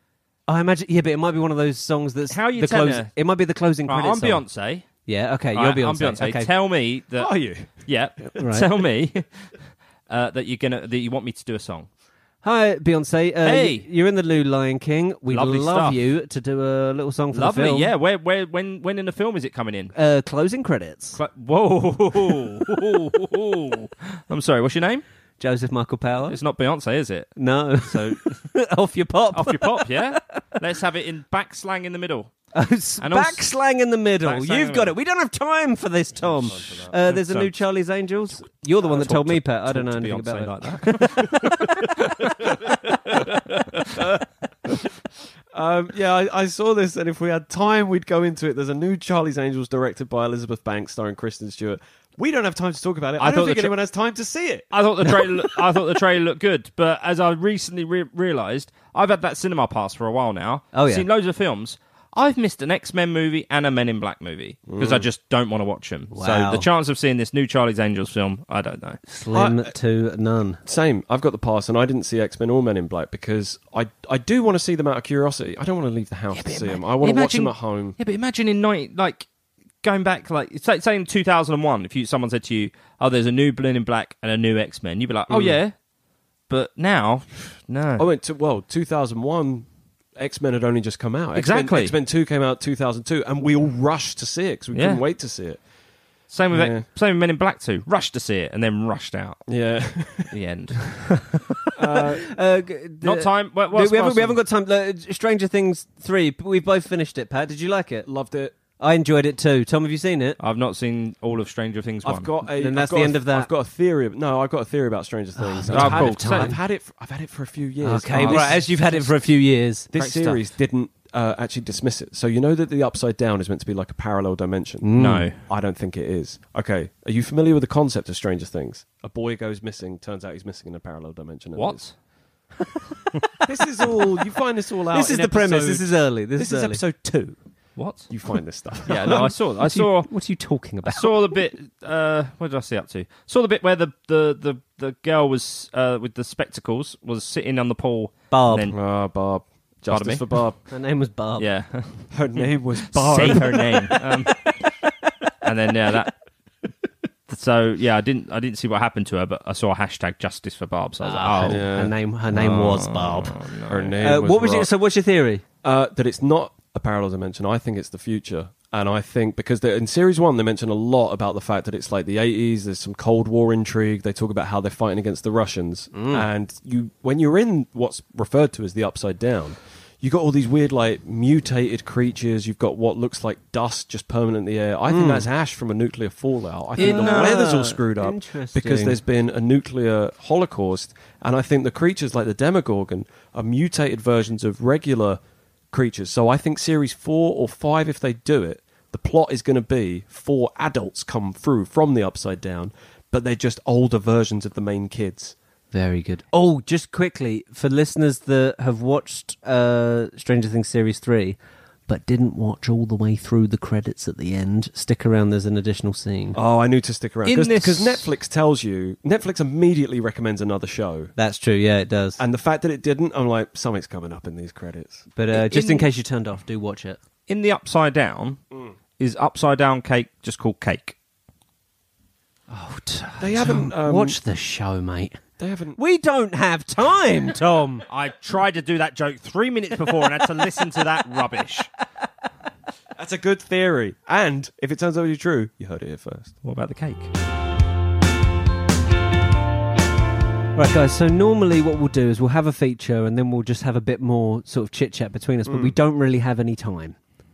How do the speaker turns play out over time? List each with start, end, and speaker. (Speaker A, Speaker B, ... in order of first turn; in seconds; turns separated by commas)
Speaker A: 0.5-4.4, Speaker B: 2.3-3.1, Speaker B: 3.9-4.9, Speaker A: 5.1-6.5, Speaker B: 5.5-9.5, Speaker C: 7.2-7.7, Speaker A: 8.3-8.7, Speaker B: 10.1-11.9, Speaker A: 12.4-17.9, Speaker B: 13.4-13.9, Speaker B: 15.3-16.0, Speaker B: 17.3-19.9, Speaker A: 19.9-21.2, Speaker B: 21.1-25.0, Speaker A: 25.4-26.4, Speaker B: 26.3-27.3, Speaker A: 27.4-30.6, Speaker B: 27.9-28.3, Speaker B: 29.3-32.3, Speaker A: 32.5-41.7, Speaker B: 33.0-33.5, Speaker B: 34.2-34.9, Speaker C: 36.2-36.9, Speaker B: 36.9-37.5, Speaker B: 38.8-42.3, Speaker C: 42.2-43.2, Speaker C: 45.5-54.7, Speaker B: 53.2-53.7, Speaker B: 54.7-69.0, Speaker A: 60.7-61.1, Speaker C: 64.7-65.1, Speaker A: 66.1-66.7, Speaker A: 69.1-70.6, Speaker C: 69.3-69.7, Speaker C: 70.7-78.0, Speaker B: 76.3-79.3, Speaker B: 79.8-85.7, Speaker C: 85.3-85.6, Speaker B: 86.5-88.1, Speaker C: 88.0-95.6, Speaker B: 91.3-92.0, Speaker B: 94.7-95.0, Speaker B: 96.3-99.4, Speaker C: 96.5-96.8, Speaker C: 99.5-100.3, Speaker B: 100.3-101.5, Speaker C: 101.7-102.2, Speaker A: 102.2-108.1, Speaker B: 103.0-104.4, Speaker C: 108.1-108.5, Speaker A: 108.8-110.4, Speaker B: 110.4-112.3, Speaker C: 112.0-118.8, Speaker A: 112.5-113.5, Speaker A: 115.4-116.6, Speaker B: 115.7-116.5, Speaker A: 117.8-119.9, Speaker B: 118.1-119.0, Speaker C: 119.9-131.8, Speaker B: 120.0-120.4, Speaker A: 124.8-125.3, Speaker B: 125.0-125.4, Speaker B: 131.6-131.9, Speaker C: 133.4-137.4, Speaker A: 134.9-136.8, Speaker B: 137.8-138.1, Speaker C: 138.1-139.3, Speaker B: 138.9-140.1, Speaker A: 139.0-141.4, Speaker B: 140.9-148.8, Speaker A: 148.3-148.7, Speaker C: 148.7-150.6, Speaker B: 149.9-150.2, Speaker A: 150.7-151.5, Speaker B: 151.4-154.6, Speaker C: 152.1-154.0, Speaker B: 155.4-156.2, Speaker B: 157.3-163.9, Speaker A: 161.0-163.4, Speaker C: 161.4-161.9, Speaker C: 163.7-164.7, Speaker A: 164.0-165.4, Speaker C: 165.6-195.2, Speaker A: 175.9-176.2, Speaker A: 184.9-185.3, Speaker B: 186.8-187.4, Speaker A: 186.8-189.0, Speaker C: 195.7-205.4, Speaker A: 205.7-216.4, Speaker C: 216.3-221.1, Speaker B: 217.3-218.1, Speaker A: 221.2-222.2, Speaker C: 222.2-225.1, Speaker A: 225.2-227.0, Speaker B: 225.3-225.9, Speaker B: 227.3-228.4, Speaker B: 229.0-230.9, Speaker A: 232.5-235.2, Speaker C: 233.2-234.2, Speaker C: 235.4-235.8, Speaker A: 235.8-237.9, Speaker B: 237.9-241.7, Speaker A: 239.9-240.7, Speaker C: 243.0-246.3, Speaker B: 246.4-247.1, Speaker A: 250.6-257.0, Speaker C: 255.5-255.7